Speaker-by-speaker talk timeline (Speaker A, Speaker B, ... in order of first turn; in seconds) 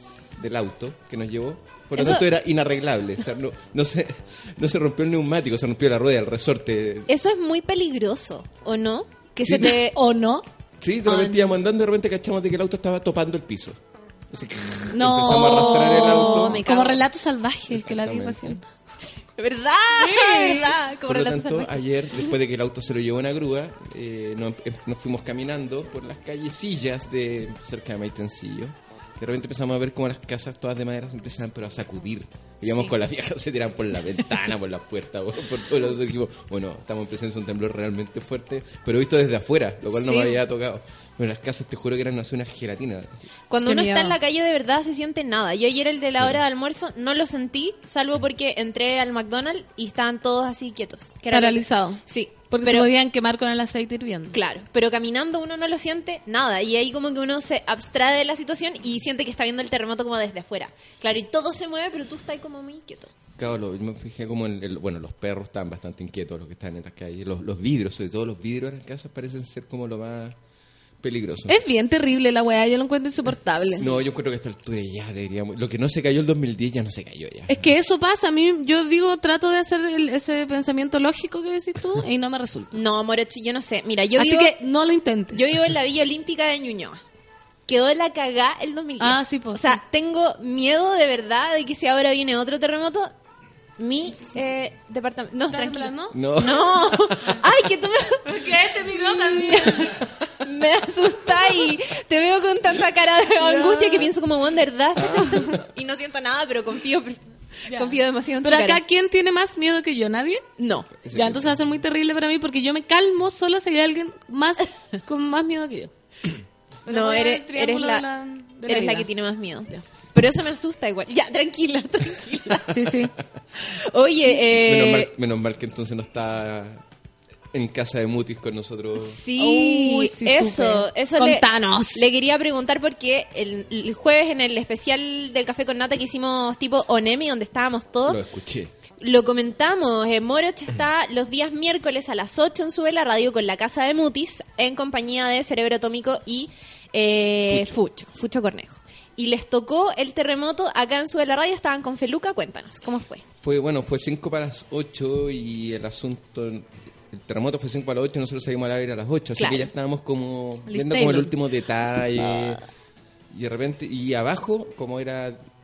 Speaker A: 0.4-7.1, 9.4-9.8, 10.8-13.8, 14.3-16.6, 17.7-18.6, 21.1-43.2, 46.1-46.4, 63.4-70.3, 71.0-71.5, 73.8-77.7, 96.1-97.1, 105.0-105.6, 111.0-111.5, 124.5-126.8, 127.5-129.2, 138.1-138.7, 153.4-162.6, 163.3-165.4
Speaker B: 1.9-2.3, 7.1-10.0, 11.1-11.5, 15.3-17.0, 19.4-22.3, 32.6-33.0, 39.9-40.4, 43.5-52.9, 54.3-63.1, 82.7-84.5, 85.3-87.0, 87.7-93.1, 93.8-108.8, 110.6-111.0, 116.9-118.0, 118.7-122.7, 123.5-125.1, 129.0-138.2, 139.0-153.2, 159.4-159.7, 162.2-162.5
Speaker C: 9.6-10.4, 14.9-18.6, 20.0-20.7, 43.6-44.2, 51.3-54.4, 71.5-73.8, 77.5-82.8, 84.2-85.4, 89.0-89.8, 95.5-96.2, 98.2-99.9, 103.4-104.1, 107.7-110.4, 111.1-115.9, 116.8-119.1, 122.7-123.1, 129.4-132.0, 160.7-161.3